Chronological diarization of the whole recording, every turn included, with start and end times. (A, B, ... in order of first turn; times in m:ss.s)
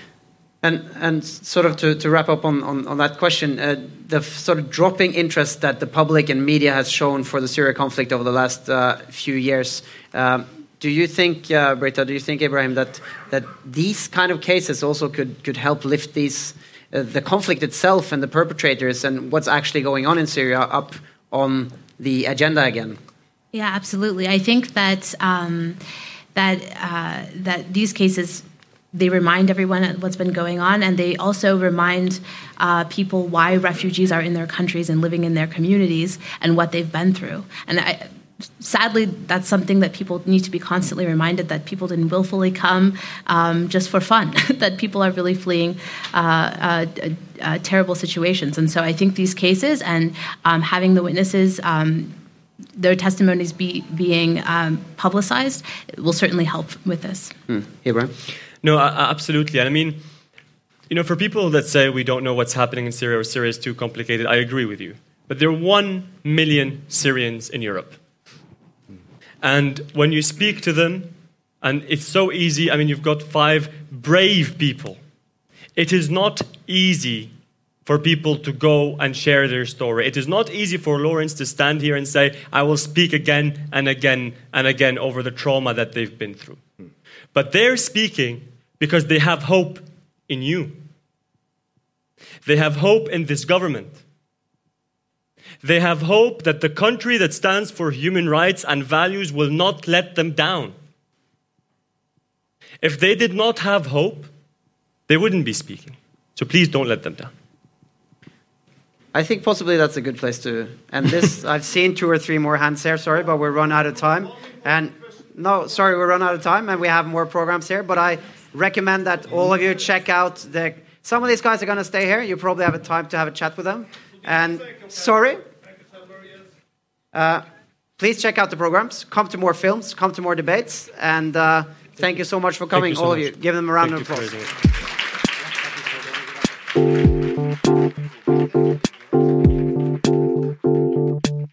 0:00.6-0:23.0 A
0:23.5-0:25.8 B
0:26.3-0:52.1 B
0:52.8-0:57.3 B
0:57.5-0:58.1 A
0:58.6-1:00.0 C
1:00.9-1:08.0 C
1:09.4-1:15.0 C
1:15.8-1:17.3 C
1:17.8-1:26.6 C
1:27.3-1:30.8 C
1:32.4-1:34.0 C
1:35.6-1:40.7 C
1:42.8-1:44.3 C
1:45.1-1:47.3 C
1:49.1-2:05.4 A
2:07.1-2:07.4 A
2:08.0-2:14.4 A
2:12.7-2:14.5 C